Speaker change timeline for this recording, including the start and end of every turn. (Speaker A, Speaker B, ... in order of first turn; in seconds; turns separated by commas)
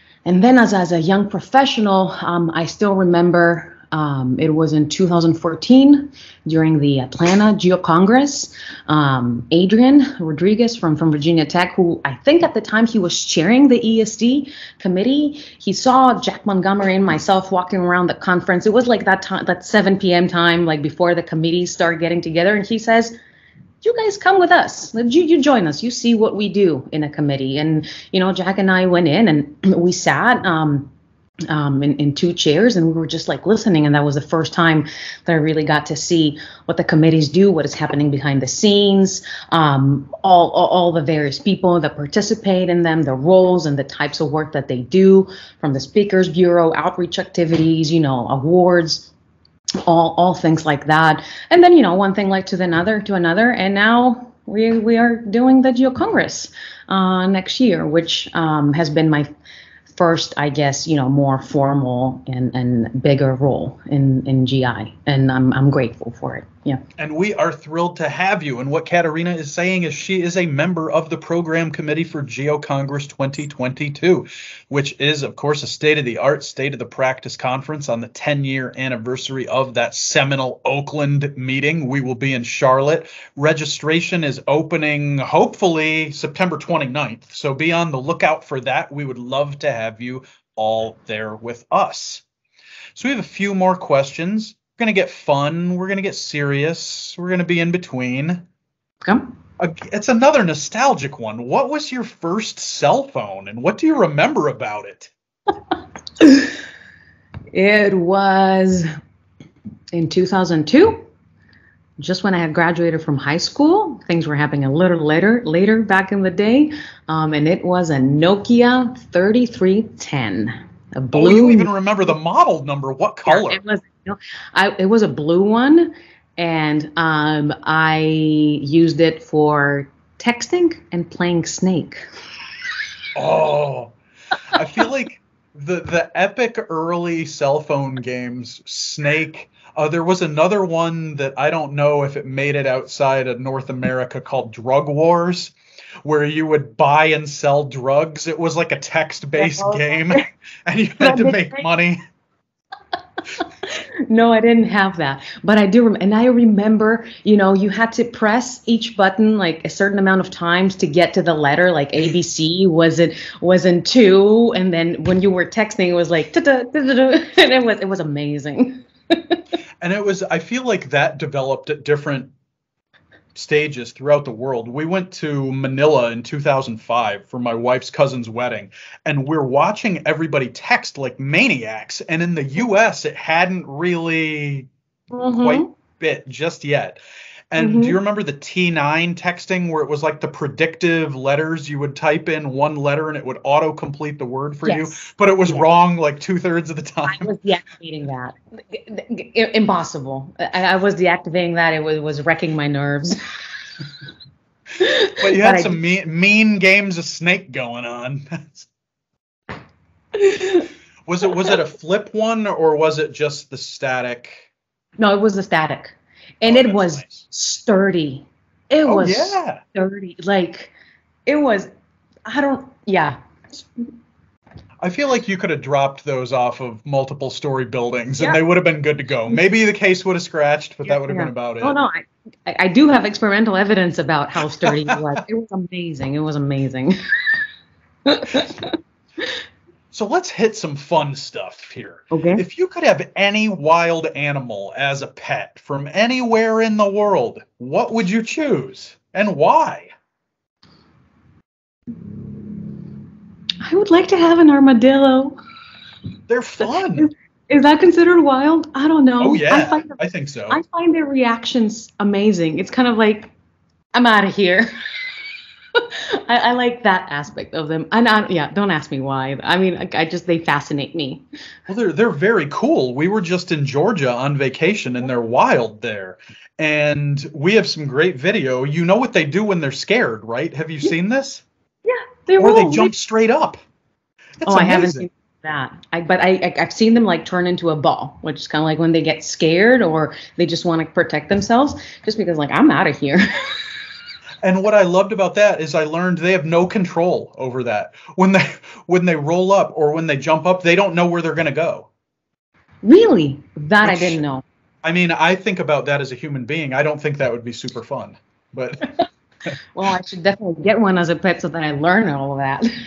Speaker A: 0.2-23.1, Speaker A: 23.8-30.9, Speaker A: 31.5-49.1, Speaker A: 49.8-59.3, Speaker A: 59.9-66.8, Speaker B: 67.0-92.2, Speaker B: 92.9-98.4, Speaker B: 99.6-105.1, Speaker A: 106.2-106.5, Speaker A: 107.5-108.9, Speaker A: 109.9-111.0, Speaker A: 112.0-121.7, Speaker B: 121.1-123.6, Speaker A: 123.2-132.0, Speaker B: 133.1-133.9, Speaker B: 134.5-152.0, Speaker A: 149.4-150.2, Speaker A: 151.0-151.7, Speaker A: 153.7-169.4, Speaker B: 169.8-172.3, Speaker B: 173.3-184.7, Speaker A: 185.1-185.7, Speaker B: 185.3-187.0, Speaker B: 187.5-197.3, Speaker A: 187.6-188.0, Speaker A: 194.6-195.6, Speaker A: 197.0-203.2, Speaker A: 204.8-205.8, Speaker B: 205.2-208.7, Speaker A: 210.1-210.7, Speaker B: 211.1-214.5, Speaker A: 215.0-220.7, Speaker B: 216.4-217.2, Speaker B: 218.8-219.6, Speaker A: 221.2-221.7, Speaker A: 222.2-223.7, Speaker B: 224.8-231.8, Speaker A: 230.8-236.9, Speaker B: 234.6-235.0, Speaker A: 238.0-239.3, Speaker B: 239.9-249.9, Speaker A: 242.1-242.4, Speaker A: 253.6-255.4, Speaker B: 256.3-257.1, Speaker A: 256.6-260.0, Speaker B: 259.2-260.6, Speaker A: 260.5-263.3, Speaker A: 263.9-264.7, Speaker A: 265.7-271.2, Speaker B: 271.7-281.4, Speaker A: 281.8-282.9, Speaker B: 282.4-283.6, Speaker B: 284.4-285.1, Speaker A: 284.4-293.7, Speaker B: 294.4-301.9, Speaker A: 302.8-304.4, Speaker B: 303.8-304.2, Speaker B: 304.8-309.0, Speaker A: 309.7-312.7